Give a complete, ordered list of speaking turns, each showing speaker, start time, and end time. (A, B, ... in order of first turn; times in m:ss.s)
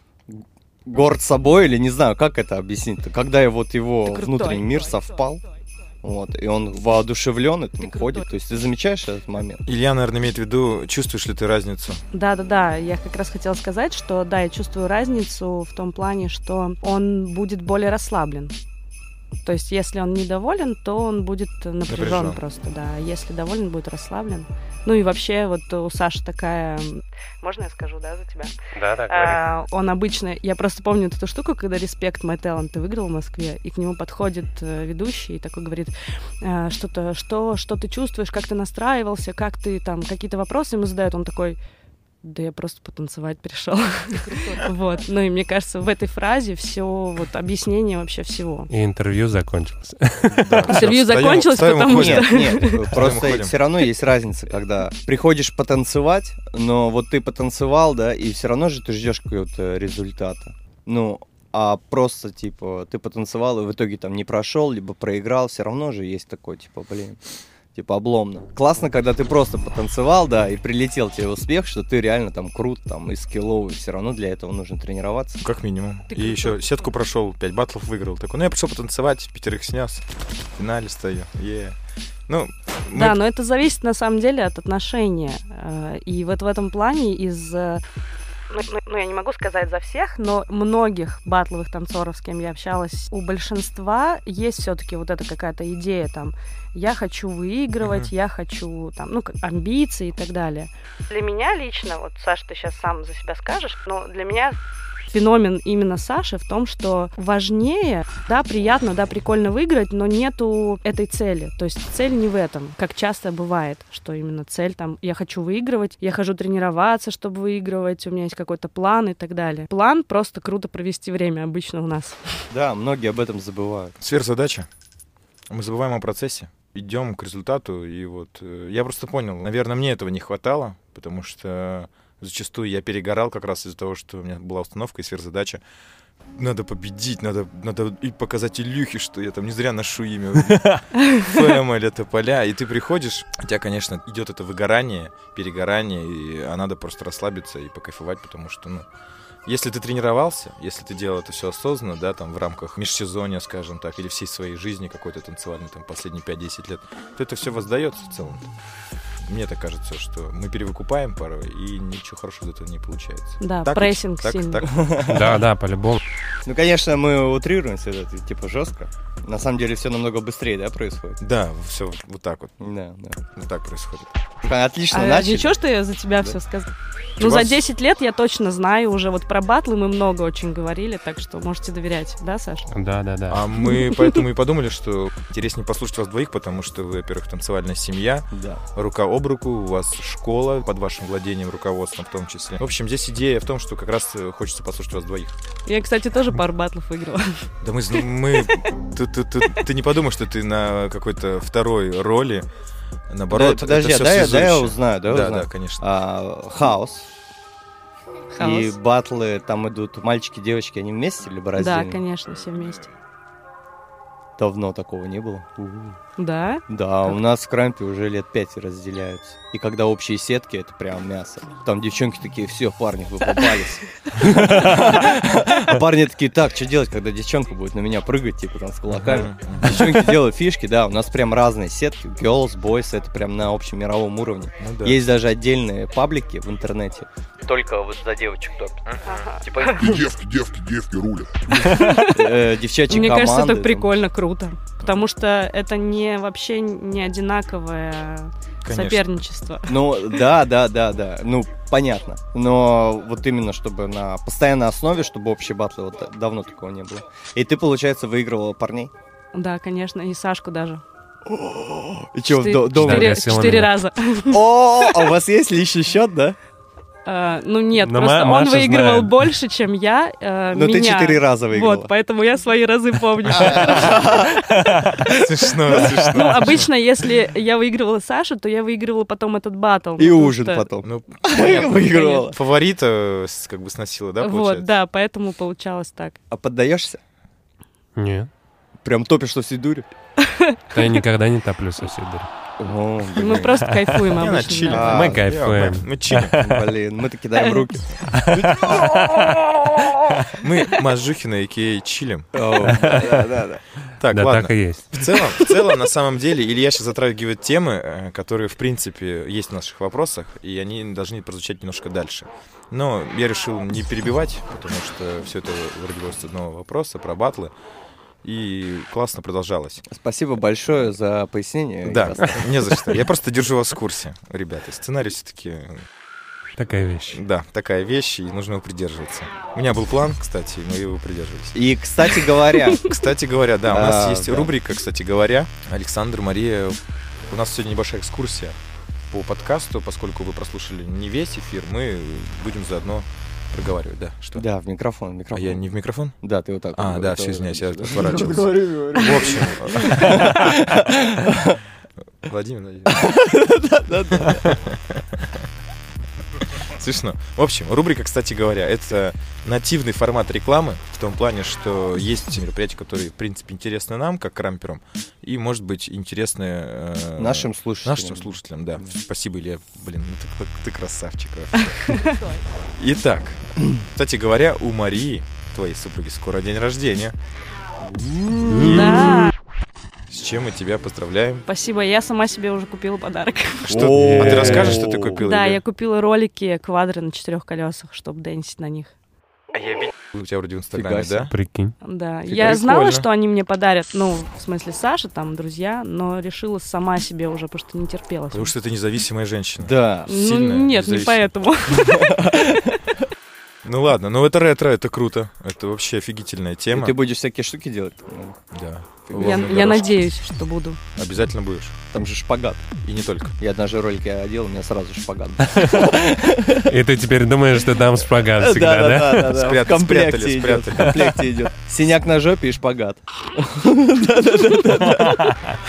0:00.3-0:05.4 A
0:04.0-0:04.9 B
0:06.0-0:09.6 A
0:07.9-0:08.2 B
0:09.6-0:12.0 C
0:12.1-0:18.5 B
0:19.4-0:28.5 B
0:21.9-0:22.4 C
0:28.7-0:29.4 D
0:29.1-0:41.6 B
0:42.2-0:48.7 B
0:48.7-0:50.8 D
0:50.3-0:53.5 C
0:50.7-0:53.1 B
0:51.8-1:07.2 A
1:07.7-1:15.4 A
1:15.4-1:21.8 C
1:16.1-1:16.8 B
1:22.3-1:23.2 C
1:22.9-1:27.8 B
1:28.5-1:44.6 B
1:37.8-1:38.1 C
1:45.1-2:02.3 B
2:02.5-2:03.9 A
2:04.0-2:04.7 C
2:05.5-2:15.6 C
2:16.3-2:28.9 C
2:29.4-2:38.5 C
2:39.2-2:45.2 C
2:43.4-2:44.7 B
2:44.7-2:45.4 A
2:45.1-2:46.0 D
2:46.4-2:51.2 A
2:51.2-2:52.5 C
2:52.6-2:53.2 A
2:53.4-2:54.2 C
2:54.4-2:55.5 A
2:54.9-3:02.7 B
2:57.2-2:57.6 C
3:02.7-3:03.5 D
3:03.3-3:15.4 C
3:03.7-3:04.0 B
3:08.3-3:08.6 A
3:15.6-3:17.5 B
3:17.6-3:22.5 C
3:23.1-3:25.8 C
3:23.3-3:27.1 A
3:28.3-3:28.8 B
3:28.4-3:32.0 A
3:31.6-3:32.9 B
3:34.4-3:36.0 A
3:36.2-3:37.2 B
3:36.7-3:58.8 A
3:48.9-3:50.2 C
3:54.6-3:55.0 C
3:58.8-3:59.3 C
3:59.0-3:59.8 B
3:59.4-4:00.1 A
3:59.7-4:02.0 E
4:01.8-4:10.0 B
4:02.1-4:03.9 A
4:08.6-4:09.0 C
4:09.6-4:18.9 A
4:19.3-4:20.8 B
4:21.2-4:23.2 A
4:22.3-4:25.1 B
4:22.7-4:23.8 D
4:24.3-4:26.4 A
4:27.0-4:34.4 B
4:27.8-4:29.2 D
4:30.5-4:31.9 A
4:33.3-4:34.3 A
4:35.1-4:36.7 C
4:35.1-4:40.7 B
4:40.0-4:42.4 A
4:40.8-4:44.7 C
4:41.4-4:42.3 B
4:44.2-4:46.2 B
4:46.3-4:47.0 A
4:48.0-4:48.3 D
4:48.8-4:49.9 A
4:50.2-4:50.6 B
4:50.7-4:52.3 D
4:52.6-4:53.7 A
4:53.1-4:55.0 B
4:53.7-4:54.1 D
4:54.2-4:56.4 C
4:54.7-4:55.2 A
4:54.7-4:56.6 D
4:56.4-4:59.9 A
4:58.1-4:59.1 D
5:00.4-5:02.3 C
5:02.3-5:03.6 A
5:02.7-5:03.2 D
5:04.0-5:17.5 C
5:04.1-5:05.1 D
5:18.2-5:19.8 C
5:19.9-5:22.9 A
5:21.8-5:25.8 C
5:26.6-5:27.2 D
5:27.1-5:31.6 C
5:31.5-5:32.8 A
5:32.8-5:36.8 C
5:33.6-5:34.5 A
5:37.3-5:38.6 C
5:39.1-5:44.4 C
5:44.3-5:51.6 A
5:45.3-5:46.2 C
5:46.7-5:50.5 C
5:52.2-5:53.1 C
5:52.9-5:54.6 A
5:54.1-5:55.3 C
5:56.4-6:12.2 C
6:07.2-6:08.8 A
6:12.8-6:17.2 C
6:17.9-6:19.1 A
6:18.5-6:19.2 D
6:18.6-6:19.3 B
6:20.1-6:21.4 C
6:21.4-6:23.9 B
6:23.6-6:25.6 C
6:23.7-6:25.2 A
6:23.9-6:24.8 D
6:25.2-6:28.9 B
6:29.5-6:31.3 C
6:30.7-6:31.3 A
6:31.3-6:31.7 D
6:31.8-6:38.5 B
6:32.3-6:33.0 C
6:38.3-6:41.4 C
6:39.6-6:40.1 A
6:40.1-6:42.8 B
6:41.7-6:42.5 A
6:43.6-6:46.9 C
6:46.7-6:48.4 A
6:48.5-6:49.9 C
6:49.1-6:49.6 A
6:49.1-6:50.8 B
6:51.0-6:51.8 C
6:51.9-6:52.6 A
6:52.8-6:53.3 C
6:53.4-6:56.7 A
6:56.6-6:59.4 D
6:58.4-7:05.4 A
6:59.3-7:01.1 C